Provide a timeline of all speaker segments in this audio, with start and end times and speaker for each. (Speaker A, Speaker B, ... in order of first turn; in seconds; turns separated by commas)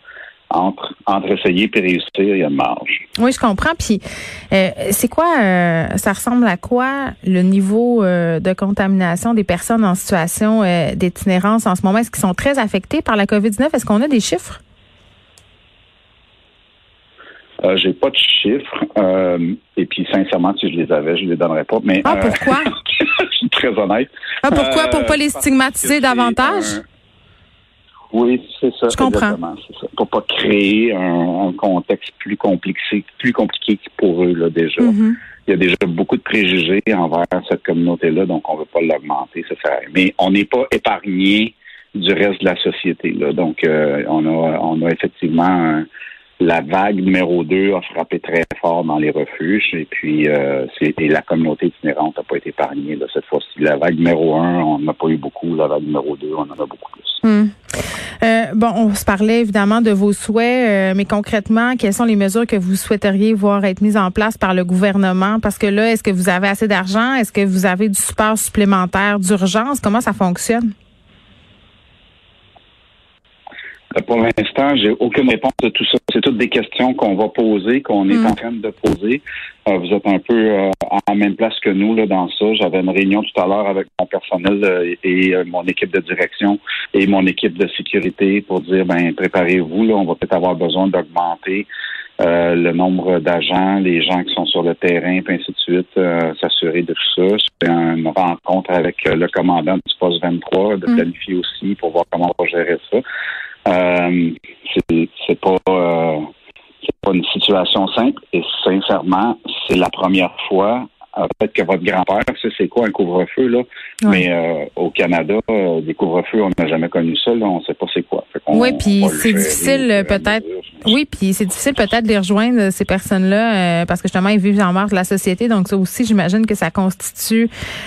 Speaker A: 0.5-3.0, Speaker B: 3.2-14.6, Speaker A: 17.6-26.8, Speaker B: 22.0-22.7, Speaker B: 24.4-26.8, Speaker A: 28.1-35.0, Speaker B: 28.9-29.4, Speaker B: 34.8-35.2, Speaker A: 35.5-45.9, Speaker A: 46.4-57.2, Speaker B: 57.2-57.6, Speaker B: 58.2-70.7, Speaker A: 73.9-91.7, Speaker A: 92.2-103.0, Speaker A: 103.7-106.3, Speaker A: 106.9-120.9, Speaker B: 118.5-127.5